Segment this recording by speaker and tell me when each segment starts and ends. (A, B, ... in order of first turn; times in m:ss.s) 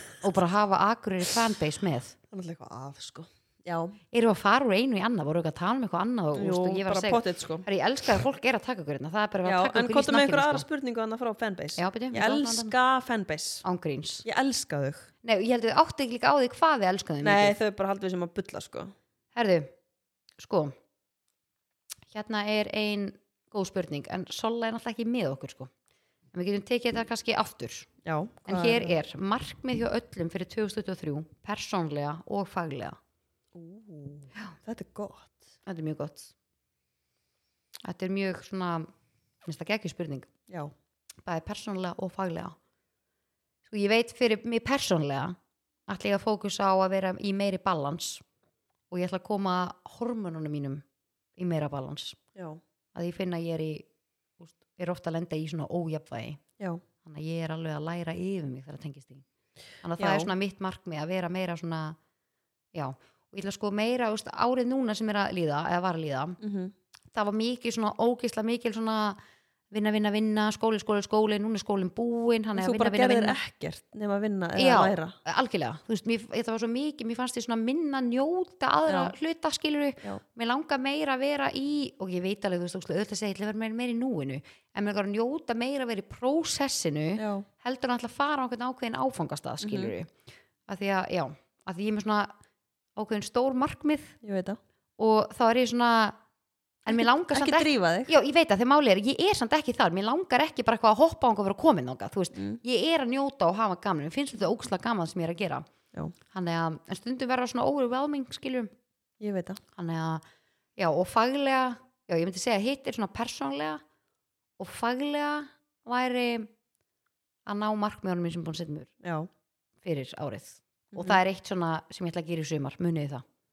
0:00.2-0:02.2 A
0:02.3-0:04.0 B
0:04.1-0:10.6 A
0:06.3-0:07.7 B
0:09.4-0:13.6 B
0:11.8-0:12.7 A
0:13.6-0:14.2 A
0:14.2-0:15.1 B
0:15.2-0:17.5 A
0:17.2-0:18.9 B
0:19.3-0:19.7 A
0:20.4-0:20.7 A
0:22.1-0:25.7 A
0:26.3-0:27.9 A
0:28.0-0:29.0 B
0:28.5-0:33.0 A
0:33.5-0:35.5 B
0:35.6-0:36.3 A
0:37.8-0:38.9 A
0:39.4-0:40.3 A
0:40.5-0:40.7 B
0:41.2-0:42.6 A
0:43.7-0:45.4 A
0:45.9-0:48.2 A
0:48.9-0:50.8 A
0:51.4-0:52.2 A
0:52.3-0:52.6 B
0:52.9-0:53.9 A
0:54.4-0:56.4 A
0:57.0-0:59.2 A
0:59.8-1:02.0 A
1:00.0-1:00.3 B
1:02.7-1:06.4 A
1:06.4-1:06.7 B
1:07.1-1:09.2 A
1:09.7-1:13.4 A
1:12.5-1:15.2 B
1:14.6-1:30.1 A
1:18.9-1:19.1 B
1:27.2-1:27.5 B
1:29.6-1:29.9 B
1:30.7-1:32.3 A
1:33.0-1:34.2 A
1:34.2-1:34.6 B
1:35.0-1:36.2 A
1:36.8-1:45.6 A
1:36.9-1:38.1 B
1:46.3-1:48.7 A
1:49.2-1:49.6 B
1:49.8-1:50.2 A
1:50.8-1:53.8 A
1:54.6-1:56.5 A
1:57.4-1:58.9 A
1:59.0-1:59.3 B
1:59.8-2:03.2 A
2:00.9-2:01.2 B